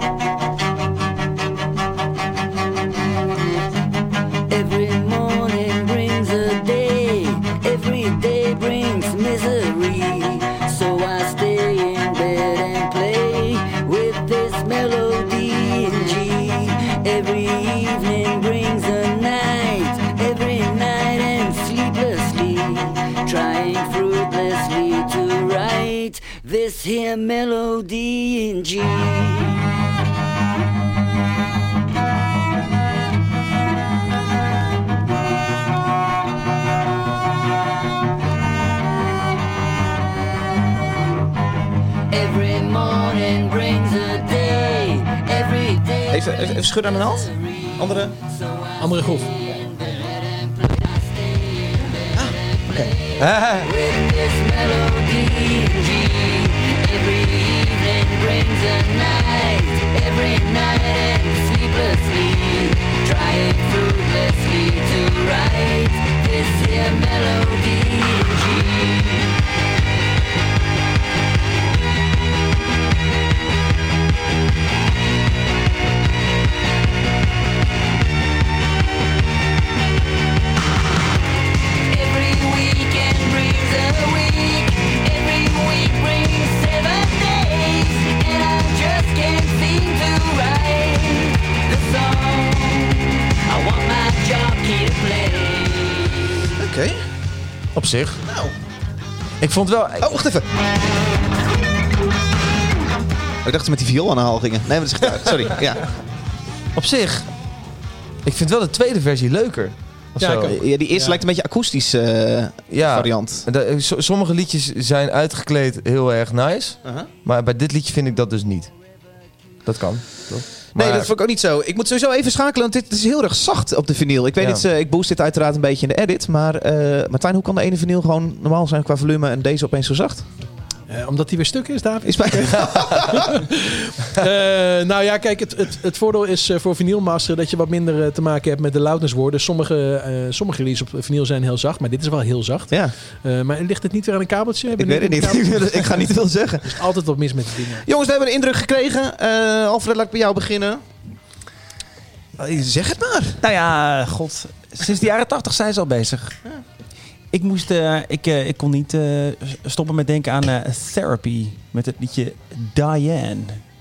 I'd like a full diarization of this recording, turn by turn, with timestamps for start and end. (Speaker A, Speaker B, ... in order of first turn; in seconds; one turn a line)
Speaker A: 4.5-29.6
Speaker A: 42.1-69.4
Speaker B: 46.1-48.1
Speaker C: 48.8-49.3
Speaker B: 52.1-53.7
Speaker A: 81.8-96.6
Speaker B: 96.6-97.0
Speaker D: 97.8-98.2
Speaker B: 98.2-98.5
Speaker D: 99.4-100.2
Speaker B: 100.0-100.5
Speaker B: 103.4-105.8
Speaker D: 106.7-107.3
Speaker D: 108.2-110.5
Speaker C: 110.2-111.2
Speaker B: 110.4-113.5
Speaker D: 112.7-118.7
Speaker B: 116.8-117.1
Speaker D: 119.6-121.1
Speaker B: 120.7-130.2
Speaker C: 130.9-146.1
Speaker B: 132.0-133.2
Speaker B: 144.7-146.8
Speaker C: 146.6-147.8
Speaker B: 147.8-150.8
Speaker B: 152.4-153.4
Speaker E: 153.4-156.4
Speaker E: 157.3-163.6